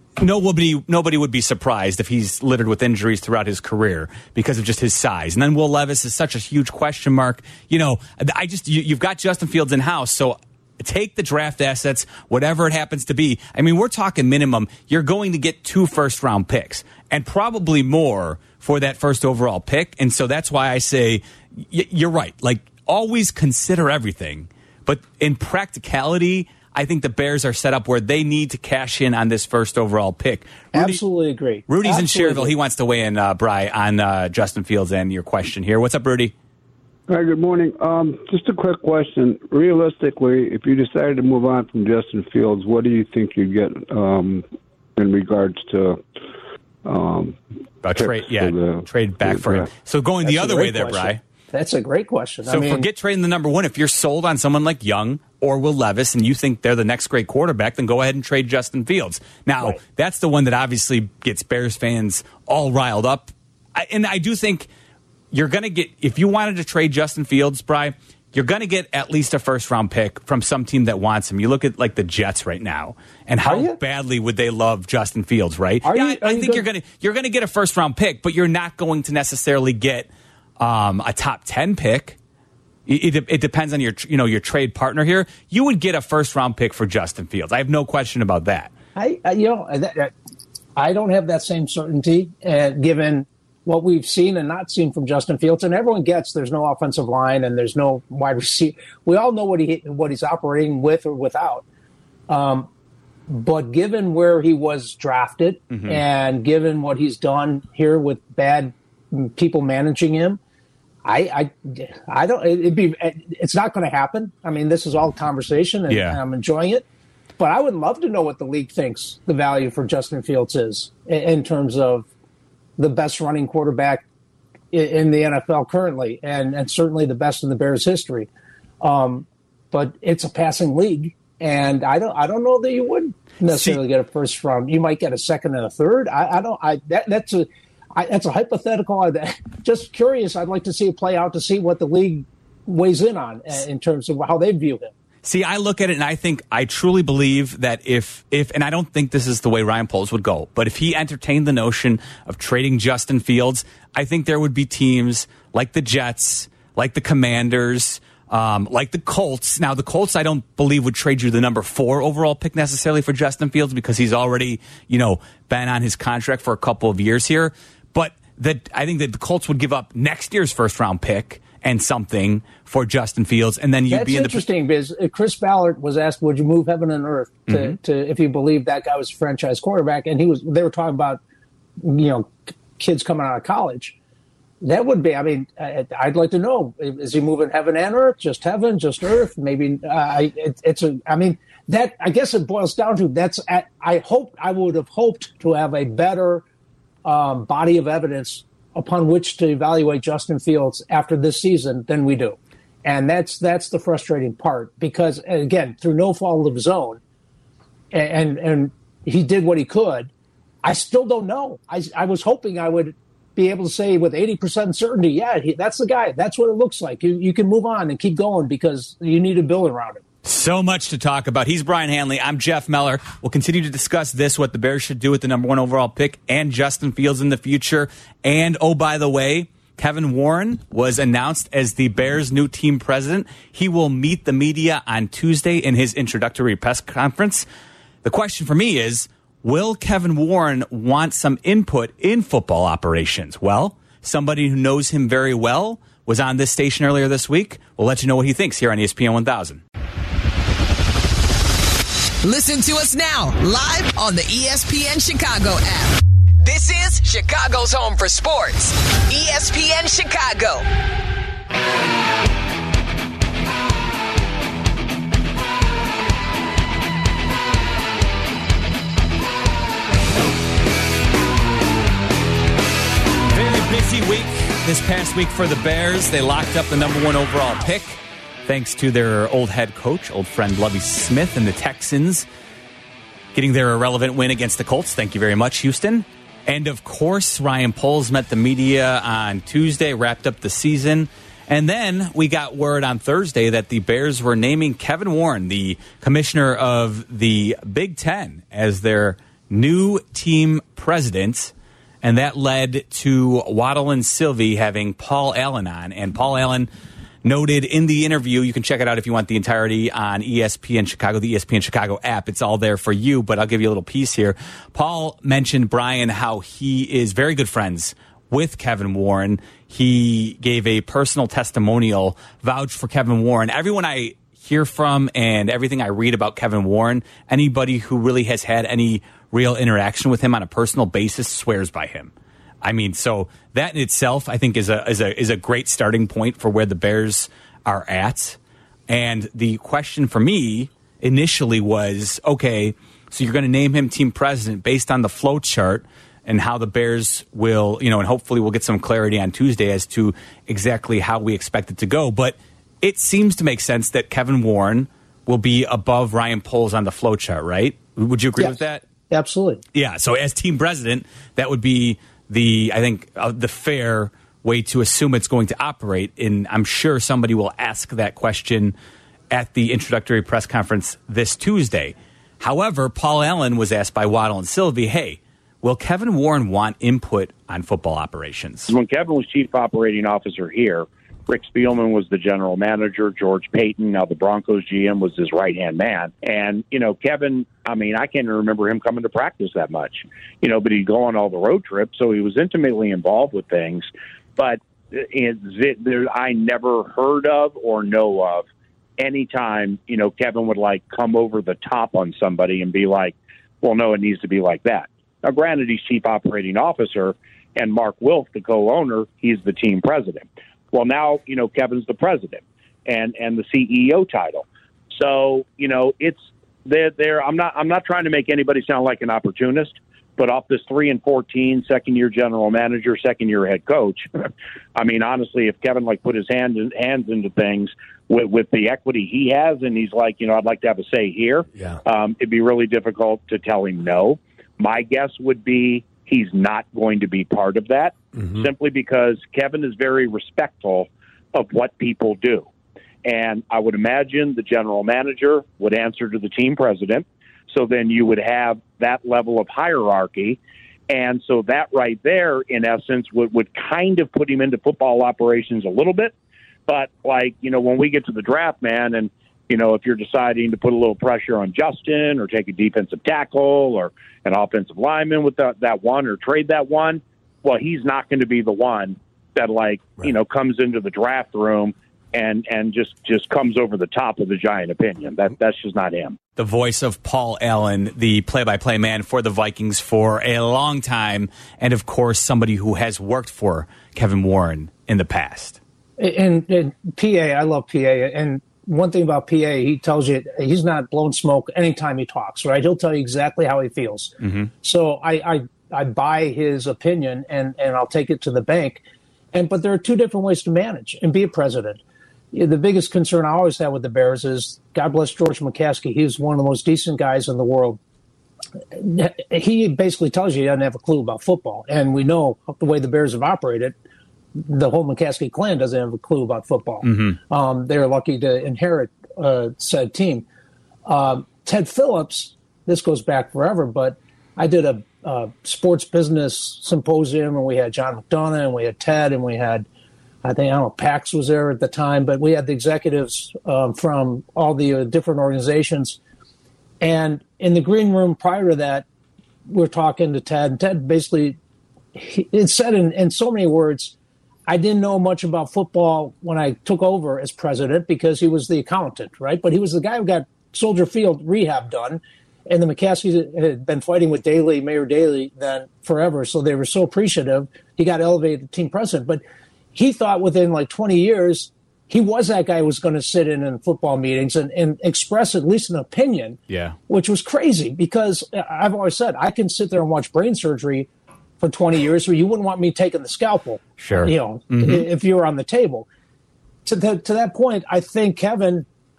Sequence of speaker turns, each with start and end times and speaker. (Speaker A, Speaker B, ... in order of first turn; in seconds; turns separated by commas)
Speaker A: 0.2-31.0, Speaker B: 30.7-32.5, Speaker A: 31.7-36.3, Speaker C: 37.1-44.4, Speaker C: 45.0-46.0, Speaker C: 46.8-49.7, Speaker A: 47.8-51.2, Speaker B: 50.2-52.9, Speaker A: 52.5-64.7, Speaker A: 65.3-82.2, Speaker B: 73.4-73.8, Speaker B: 75.8-76.6, Speaker A: 82.8-88.7, Speaker B: 89.0-90.1, Speaker B: 90.8-101.6, Speaker B: 102.3-102.7, Speaker B: 103.3-110.4, Speaker A: 105.7-106.0, Speaker B: 111.0-116.8, Speaker A: 115.9-116.2, Speaker B: 117.4-122.1, Speaker B: 122.8-124.0, Speaker B: 124.7-128.3, Speaker B: 128.8-144.9, Speaker A: 133.4-133.8, Speaker A: 145.2-174.4, Speaker B: 173.9-181.2, Speaker A: 177.5-177.8, Speaker B: 181.8-183.9, Speaker B: 184.6-196.4, Speaker B: 197.0-207.0, Speaker B: 207.9-210.1, Speaker B: 210.6-220.0, Speaker A: 220.2-237.4, Speaker A: 238.0-249.6, Speaker D: 252.2-260.6, Speaker A: 273.3-282.2, Speaker A: 283.3-306.7, Speaker A: 307.2-358.8, Speaker B: 359.1-359.6, Speaker A: 359.7-368.7, Speaker A: 369.3-378.7, Speaker E: 378.7-398.4, Speaker E: 399.0-424.1, Speaker E: 424.8-442.5, Speaker E: 443.0-450.4, Speaker E: 450.9-456.1, Speaker E: 456.7-476.2, Speaker A: 476.4-485.6, Speaker B: 486.0-498.8, Speaker A: 494.2-494.5, Speaker B: 499.3-501.8, Speaker B: 502.3-507.8, Speaker B: 508.7-513.7, Speaker B: 514.4-520.2, Speaker A: 516.8-517.2, Speaker B: 520.9-529.6, Speaker B: 530.2-536.0, Speaker B: 536.8-538.9, Speaker B: 539.5-541.4, Speaker B: 541.9-543.9, Speaker B: 544.5-559.2, Speaker B: 559.7-570.9, Speaker A: 566.5-566.8, Speaker B: 571.4-575.9, Speaker A: 573.8-574.9, Speaker B: 576.6-578.6